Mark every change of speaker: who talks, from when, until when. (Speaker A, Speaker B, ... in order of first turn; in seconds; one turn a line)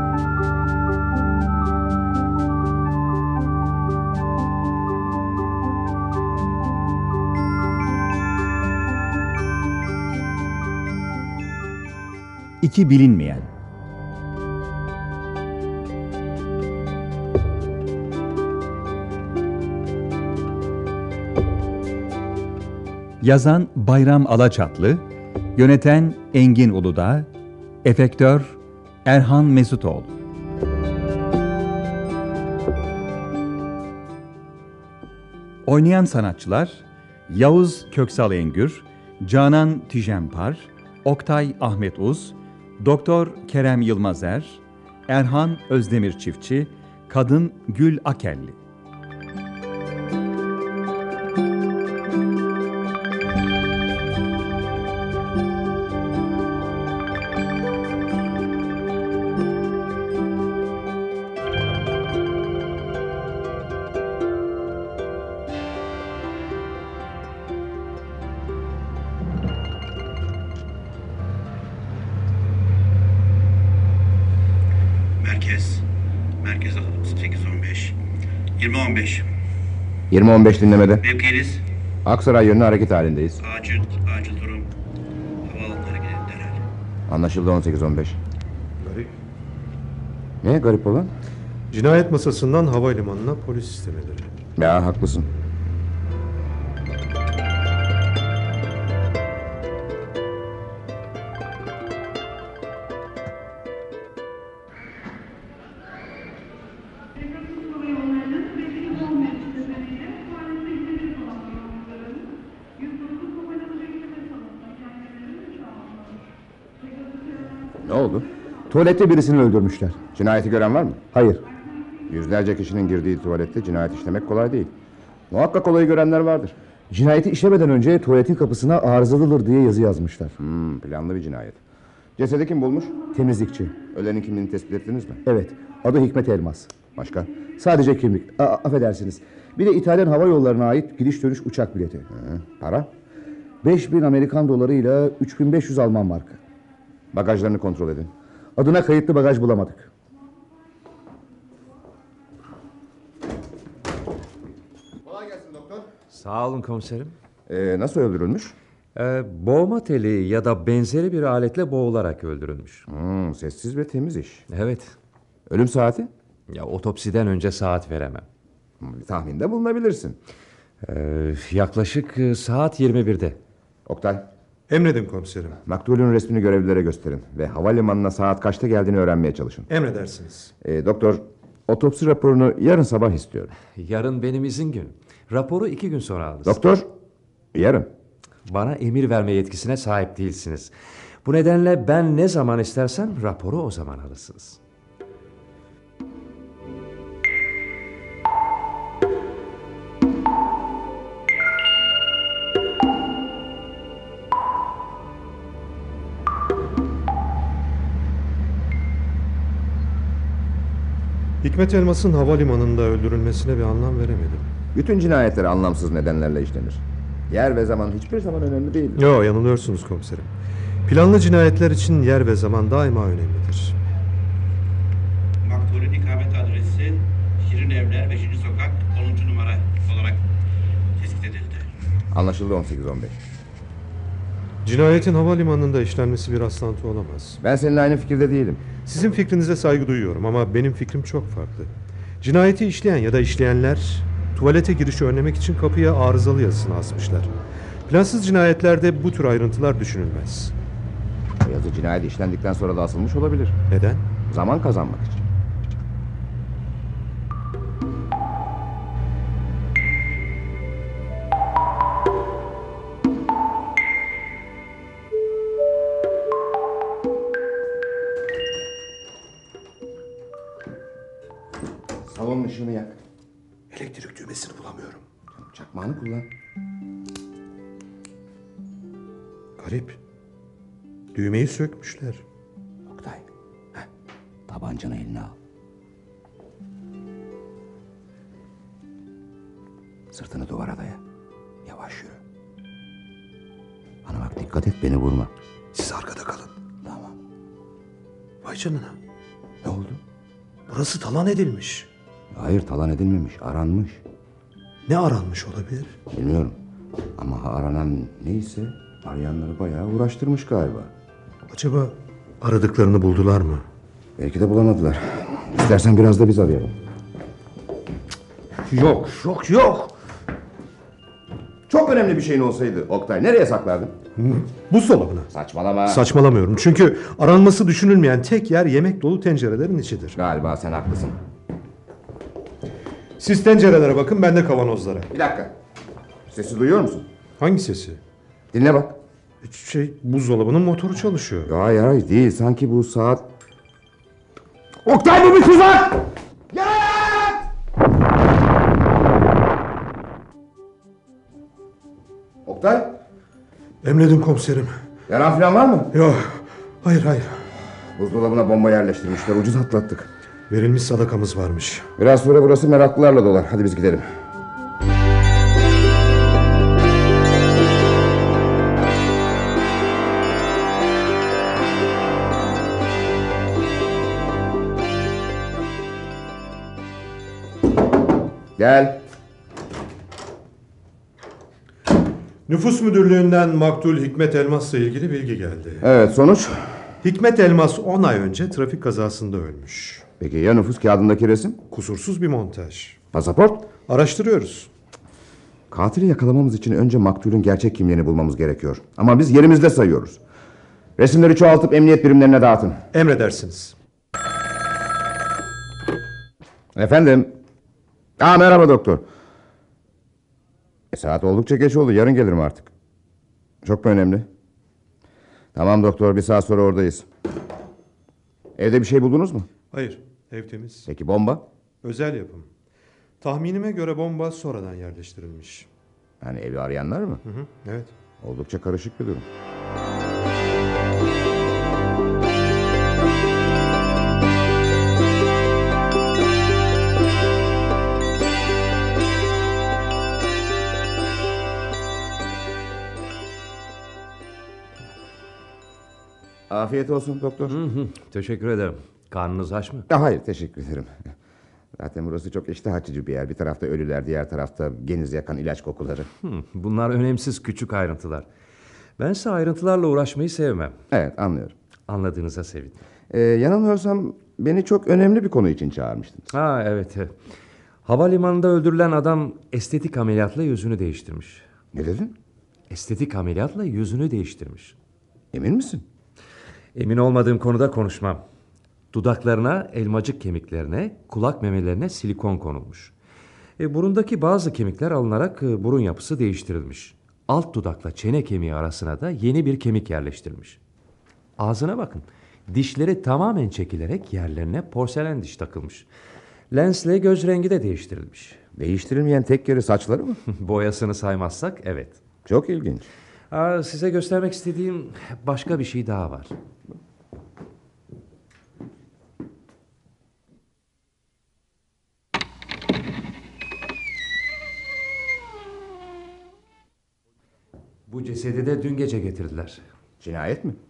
Speaker A: 12.6-13.5
Speaker A: 23.2-25.0
Speaker A: 25.5-27.3
Speaker A: 27.8-30.1
Speaker A: 35.6-48.5
Speaker B: 75.2-75.8
Speaker B: 76.4-78.0
Speaker B: 78.6-79.3
Speaker C: 80.1-81.0
Speaker B: 81.0-81.6
Speaker C: 82.0-83.4
Speaker B: 83.4-84.7
Speaker B: 85.4-86.6
Speaker C: 87.1-88.2
Speaker D: 88.8-89.2
Speaker C: 90.4-91.1
Speaker D: 91.7-94.3
Speaker C: 94.6-95.3
Speaker C: 117.8-118.3
Speaker E: 118.7-120.0
Speaker C: 120.1-121.0
Speaker E: 121.1-121.4
Speaker C: 122.1-124.7
Speaker C: 125.3-126.5
Speaker E: 126.9-130.3
Speaker C: 130.4-131.6
Speaker C: 132.2-133.1
Speaker E: 133.1-133.7
Speaker C: 133.9-135.2
Speaker E: 135.2-136.7
Speaker C: 136.9-137.4
Speaker E: 137.6-142.1
Speaker C: 142.1-142.9
Speaker E: 143.6-146.4
Speaker C: 147.1-148.1
Speaker E: 148.6-149.9
Speaker C: 155.0-155.9
Speaker F: 156.1-157.1
Speaker C: 157.5-158.6
Speaker F: 158.9-162.8
Speaker C: 162.9-164.4
Speaker F: 164.5-164.9
Speaker C: 165.5-166.1
Speaker F: 166.5-168.2
Speaker C: 168.8-170.2
Speaker F: 170.8-173.4
Speaker C: 173.8-174.3
Speaker D: 174.7-175.6
Speaker C: 175.6-179.7
Speaker D: 179.7-180.5
Speaker C: 180.6-183.5
Speaker F: 183.7-186.6
Speaker C: 186.4-186.9
Speaker C: 187.5-187.9
Speaker F: 188.4-190.7
Speaker F: 191.2-194.6
Speaker D: 211.4-214.5
Speaker C: 214.7-219.0
Speaker D: 218.9-220.3
Speaker D: 220.9-223.8
Speaker B: 225.4-230.2
Speaker B: 230.9-231.7
Speaker C: 232.1-233.2
Speaker D: 234.6-237.4
Speaker C: 237.4-238.6
Speaker D: 238.8-247.3
Speaker D: 247.9-250.5
Speaker C: 251.4-253.6
Speaker D: 253.7-254.0
Speaker C: 254.3-255.3
Speaker C: 272.0-273.0
Speaker D: 273.7-275.0
Speaker C: 275.4-276.3
Speaker D: 279.6-280.0
Speaker D: 281.1-282.2
Speaker C: 282.9-283.2
Speaker C: 284.5-285.4
Speaker C: 290.1-291.0
Speaker C: 291.6-292.2
Speaker C: 294.0-295.3
Speaker D: 295.7-296.6
Speaker C: 296.8-297.2
Speaker D: 298.4-299.0
Speaker C: 299.6-300.0
Speaker D: 300.7-301.9
Speaker C: 302.3-304.0
Speaker D: 304.9-306.0
Speaker C: 306.1-306.6
Speaker C: 307.2-310.9
Speaker D: 311.5-313.6
Speaker C: 314.2-316.7
Speaker C: 318.6-319.9
Speaker C: 321.7-324.0
Speaker D: 324.2-325.3
Speaker C: 325.3-326.0
Speaker D: 325.9-330.2
Speaker C: 330.1-331.2
Speaker D: 333.2-335.1
Speaker C: 335.1-335.5
Speaker C: 336.3-337.1
Speaker D: 337.4-338.0
Speaker C: 338.5-339.0
Speaker D: 339.4-341.5
Speaker C: 341.5-343.3
Speaker C: 344.8-347.5
Speaker C: 352.4-353.0
Speaker D: 353.8-354.8
Speaker C: 355.1-355.9
Speaker D: 355.9-357.4
Speaker C: 357.9-360.1
Speaker D: 360.5-361.9
Speaker C: 362.0-364.1
Speaker C: 378.6-379.0
Speaker D: 382.5-385.9
Speaker C: 385.8-386.8
Speaker D: 387.0-390.1
Speaker C: 390.2-391.6
Speaker D: 391.7-393.0
Speaker C: 393.1-393.7
Speaker D: 393.9-394.7
Speaker C: 395.7-400.2
Speaker C: 401.0-402.8
Speaker D: 402.9-403.8
Speaker C: 406.7-407.4
Speaker C: 408.2-409.0
Speaker C: 410.9-412.7
Speaker C: 413.6-414.3
Speaker C: 415.5-417.1
Speaker C: 418.6-419.5
Speaker D: 419.7-420.9
Speaker C: 420.9-421.4
Speaker D: 421.8-422.5
Speaker D: 423.2-425.7
Speaker C: 426.2-427.2
Speaker D: 427.2-427.9
Speaker C: 428.2-429.3
Speaker C: 446.5-447.6
Speaker F: 447.5-449.9
Speaker C: 449.9-451.1
Speaker C: 451.8-456.1
Speaker F: 456.2-458.2
Speaker F: 459.0-460.8
Speaker C: 460.9-461.5
Speaker F: 461.9-462.8
Speaker C: 463.1-466.3
Speaker F: 466.3-467.1
Speaker F: 467.8-471.4
Speaker C: 471.7-472.1
Speaker F: 472.7-474.8
Speaker C: 475.3-475.8
Speaker F: 476.7-478.2
Speaker F: 478.9-482.9
Speaker F: 483.6-490.6
Speaker F: 491.4-495.9
Speaker F: 496.5-498.4
Speaker C: 498.6-500.2
Speaker F: 500.3-502.0
Speaker C: 502.2-502.9
Speaker F: 503.3-506.3
Speaker F: 517.9-519.6
Speaker C: 520.0-520.6